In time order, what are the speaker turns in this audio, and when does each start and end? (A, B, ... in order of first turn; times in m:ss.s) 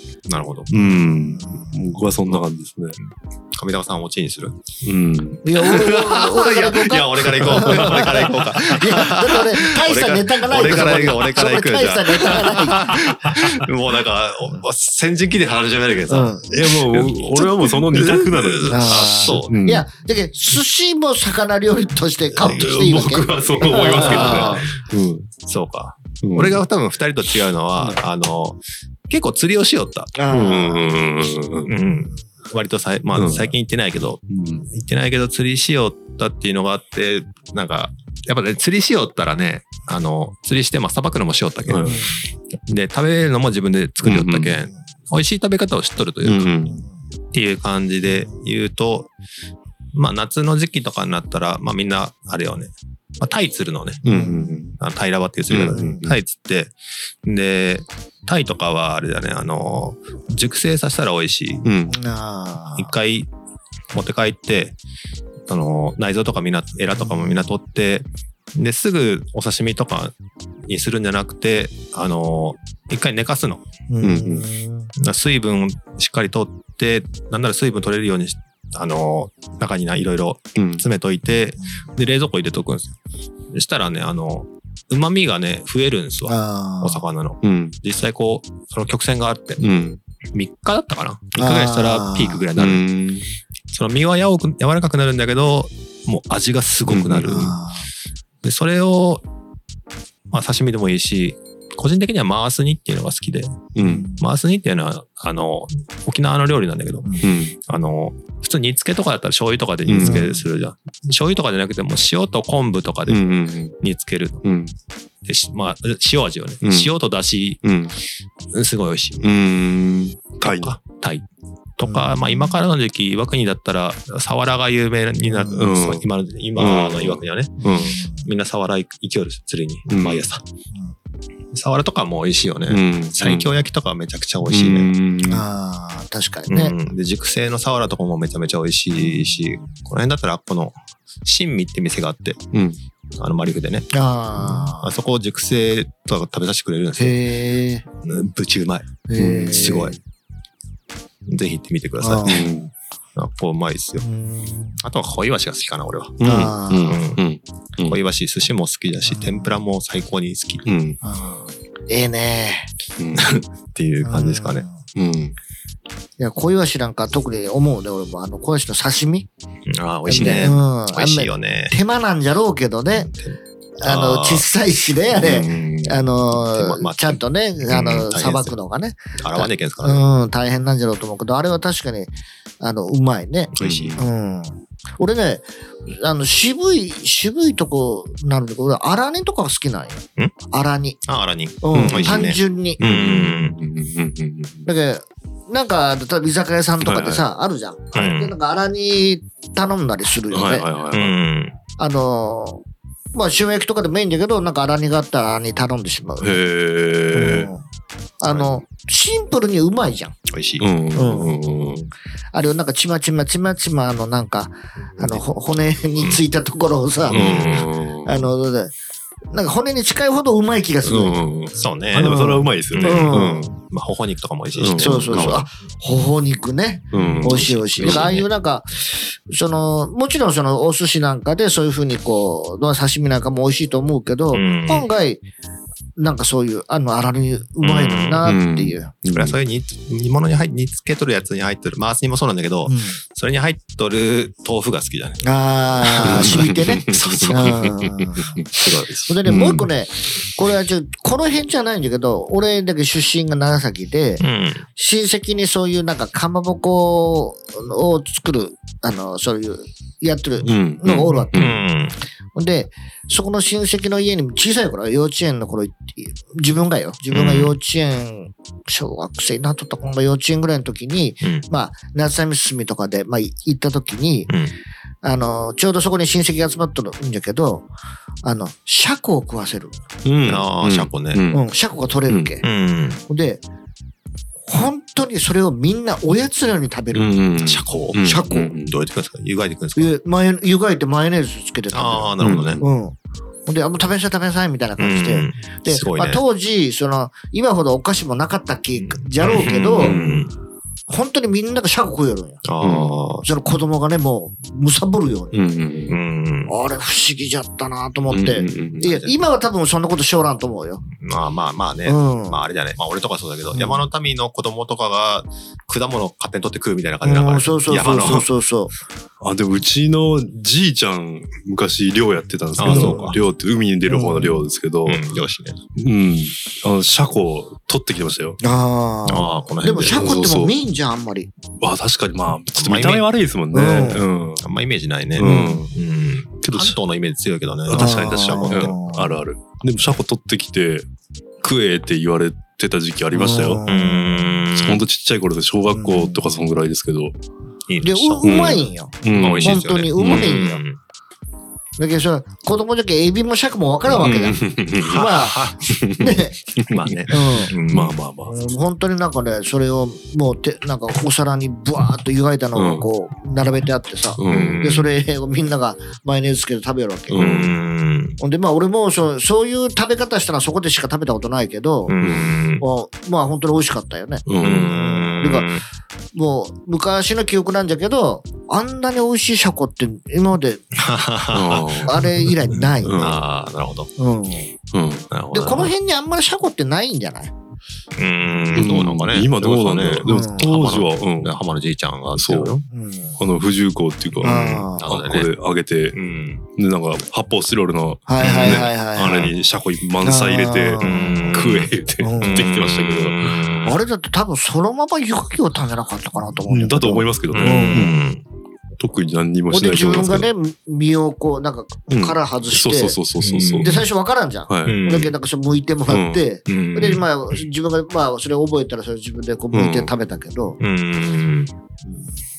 0:00.3-0:00.7 A
0:00.7-0:03.0 B
0:00.7-0:01.9 C
0:03.0-0:04.6 A
0:04.8-0:05.4 B
0:05.4-0:13.1 C
0:05.6-0:19.6 A
0:07.4-0:08.1 B
0:13.2-0:13.5 B
0:16.1-0:16.5 C
0:16.5-0:19.9 B
0:18.7-0:24.6 C
0:22.3-0:25.3 B
0:22.4-0:24.7 A
0:25.4-0:30.7 A
0:26.2-0:26.6 B
0:30.2-0:30.9 C
0:30.3-0:31.7 B
0:31.6-0:42.1 A
0:33.1-0:33.5 B
0:34.3-0:34.7 B
0:41.7-0:42.1 B
0:41.9-0:42.2 C
0:42.7-0:46.6 A
0:44.0-0:44.6 B
0:46.2-0:46.8 B
0:46.6-0:46.9 C
0:47.3-0:49.1 A
0:49.9-0:54.2 A
0:54.0-0:54.7 B
0:54.1-0:54.7 C
0:54.8-1:01.7 A
0:55.5-0:56.0 B
0:55.7-0:56.2 C
1:01.6-1:02.0 B
1:01.9-1:02.9 C
1:02.8-1:03.3 A
1:03.9-1:04.8 A
1:05.5-1:10.1 A
1:07.1-1:07.5 C
1:10.7-1:13.6 A
1:13.9-1:14.9 C
1:14.0-1:14.5 B
1:15.0-1:22.9 A
1:20.6-1:20.8 B
1:23.5-1:29.7 A
1:26.3-1:27.1 C
1:27.4-1:27.8 B
1:29.6-1:30.0 B
1:30.3-1:32.9 A
1:31.4-1:32.4 C
1:32.6-1:33.3 B
1:33.7-1:37.6 A
1:36.9-1:37.5 B
1:37.2-1:37.9 C
1:38.4-1:39.2 A
1:40.3-1:54.4 A
1:43.8-1:44.1 B
1:43.8-1:44.2 C
1:47.2-1:47.6 B
1:49.9-1:50.3 B
1:50.0-1:50.5 C
1:53.1-1:53.7 B
1:54.4-1:54.7 B
1:55.2-1:57.6 A
1:56.6-1:56.9 B
1:57.6-1:58.0 B
1:58.5-1:59.3 A
1:59.2-2:00.8 B
2:00.4-2:01.3 A
2:01.8-2:07.6 A
2:01.8-2:02.6 C
2:05.2-2:05.8 C
2:05.5-2:06.1 B
2:06.6-2:08.0 B
2:07.6-2:08.3 C
2:08.1-2:10.4 A
2:09.9-2:10.3 B
2:11.5-2:14.9 A
2:12.7-2:13.6 B
2:14.4-2:15.5 B
2:15.2-2:16.8 C
2:16.5-2:22.4 A
2:18.9-2:19.8 C
2:22.5-2:22.8 B
2:23.2-2:27.2 A
2:23.9-2:24.9 C
2:27.0-2:27.9 C
2:28.0-2:30.0 A
2:29.1-2:30.0 C
2:29.2-2:29.8 B
2:31.3-2:32.6 A
2:32.0-2:32.6 C
2:32.2-2:32.7 B
2:33.2-2:34.0 A
2:34.0-2:34.8 C
2:34.8-2:36.2 A
2:36.2-2:38.0 B
2:36.2-2:37.0 C
2:36.9-2:37.2 A
2:37.9-2:40.6 A
2:39.1-2:39.6 C
2:40.6-2:41.0 B
2:41.0-2:42.7 C
2:43.0-2:43.3 B
2:43.2-2:44.6 A
2:44.0-2:44.8 C
2:45.0-2:45.4 B
2:46.2-2:49.3 C
2:49.7-2:51.7 A
2:50.1-2:53.1 C
2:50.2-2:50.5 B
2:52.9-2:54.5 A
2:53.8-3:11.0 C
2:55.1-2:58.6 A
2:59.2-3:00.1 A
3:03.5-3:04.0 A
3:03.6-3:04.0 B
3:11.1-3:13.6 A
3:11.6-3:12.8 C
3:11.7-3:14.6 B
3:14.6-3:20.7 C
3:16.8-3:17.2 B
3:17.9-3:18.3 A
3:20.3-3:21.2 B
3:20.9-3:21.6 A
3:21.8-3:26.4 C
3:26.2-3:27.5 B
3:27.1-3:27.6 C
3:28.2-3:30.1 C
3:28.3-3:28.6 A
3:30.3-3:30.7 A
3:30.6-3:31.9 B
3:30.9-3:31.4 C
3:32.3-3:38.7 C
3:37.1-3:37.6 A
3:37.1-3:38.3 B
3:39.3-3:41.2 C
3:40.8-3:43.5 B
3:41.6-3:45.5 A
3:42.0-3:43.6 C
3:44.6-3:45.4 B
3:44.8-3:55.2 C
3:46.9-3:48.2 B
3:46.9-3:48.3 A
3:54.3-3:54.9 A
3:56.0-3:58.9 C
3:57.6-3:58.3 A
3:58.2-3:59.4 B
3:59.1-4:05.2 A
4:02.7-4:03.0 C
4:05.2-4:08.4 C
4:05.9-4:07.7 A
4:06.0-4:08.0 B
4:08.5-4:09.6 A
4:09.1-4:21.5 C
4:09.3-4:09.7 B
4:14.2-4:14.6 A
4:20.4-4:21.6 B
4:21.0-4:22.0 A
4:22.3-4:34.3 C
4:27.1-4:27.6 A
4:34.3-4:34.6 A
4:35.0-4:37.7 C
4:38.2-4:39.8 C
4:40.0-4:41.4 B
4:40.2-4:41.2 A
4:41.3-4:42.4 C
4:42.1-4:42.4 B
4:42.4-4:43.0 A
4:43.1-4:43.4 C
4:44.5-4:47.2 C
4:46.9-4:48.7 B
4:47.4-4:49.9 A
4:48.0-4:48.5 C
4:49.8-5:00.0 C
4:51.7-4:52.6 A
4:52.2-4:52.6 B
4:54.8-4:56.2 A
4:58.8-5:00.3 A
4:59.8-5:00.3 B
5:00.9-5:02.4 C
5:02.4-5:03.3 A
5:02.6-5:03.0 B
5:03.2-5:05.4 C
5:05.3-5:06.0 B
5:05.9-5:06.5 A
5:06.5-5:10.8 C
5:08.1-5:08.9 B
5:08.8-5:09.2 A
5:11.0-5:18.3 A
5:11.8-5:12.4 C
5:17.0-5:18.7 C
5:19.2-5:25.0 B
5:22.6-5:23.2 A
5:22.6-5:23.2 C
5:23.9-5:24.5 C
5:24.8-5:25.6 A
5:25.8-5:28.4 B
5:28.4-5:31.3 C
5:29.1-5:30.2 A
5:29.9-5:30.6 B
5:31.6-5:34.4 B
5:32.5-5:33.1 A
5:33.5-5:34.1 C
5:34.4-5:38.8 A
5:35.2-5:35.7 B
5:35.2-5:35.7 C
5:36.4-5:36.8 B
5:37.6-5:40.9 B
5:37.8-5:39.2 C
5:41.4-5:43.6 B
5:43.1-5:44.3 C
5:43.6-5:44.9 A
5:44.6-5:47.2 B
5:45.7-5:46.4 C
5:47.7-5:50.8 A
5:47.8-5:50.6 C
5:48.2-5:50.4 B
5:51.8-5:56.4 C
5:54.0-5:57.1 B
5:54.8-5:55.6 A
5:56.7-5:58.0 A
5:57.1-5:57.5 C
5:57.7-5:58.3 B
5:58.3-6:07.2 C
6:02.6-6:02.9 B
6:04.2-6:04.9 B
6:04.2-6:04.7 A
6:07.1-6:08.2 A
6:07.1-6:07.5 B
6:08.2-6:11.9 C
6:11.9-6:12.6 A
6:12.0-6:12.4 B
6:12.6-6:15.5 C
6:14.3-6:14.8 B
6:14.4-6:15.6 A
6:16.1-6:20.6 C
6:20.8-6:21.9 A
6:21.3-6:23.2 B
6:21.8-6:23.2 C
6:22.5-6:23.9 A
6:24.0-6:24.5 C
6:24.7-6:25.1 B
6:25.1-6:25.8 A
6:25.3-6:27.3 C
6:28.0-6:32.6 A
6:28.5-6:31.4 B
6:30.0-6:30.5 C
6:32.2-6:32.6 B
6:32.7-6:33.2 C
6:33.2-6:36.0 B
6:34.2-6:35.3 A
6:34.2-6:34.9 C
6:35.9-6:36.4 A
6:36.6-6:43.3 B
6:38.1-6:39.3 C
6:38.2-6:39.3 A
6:40.0-6:41.4 C
6:40.8-6:43.8 A
6:42.0-6:42.5 C
6:43.6-6:48.0 C
6:46.4-6:48.0 B
6:47.3-6:48.2 A
6:48.8-6:50.3 B
6:49.5-6:53.0 C
6:51.9-6:53.9 B
6:53.2-6:53.8 A
6:53.6-7:00.6 C
6:54.5-6:54.8 B
6:54.6-6:55.1 A
6:55.9-6:56.2 B
6:56.5-6:57.0 A
6:59.5-6:59.9 B
7:00.6-7:01.5 A
7:01.8-7:02.1 C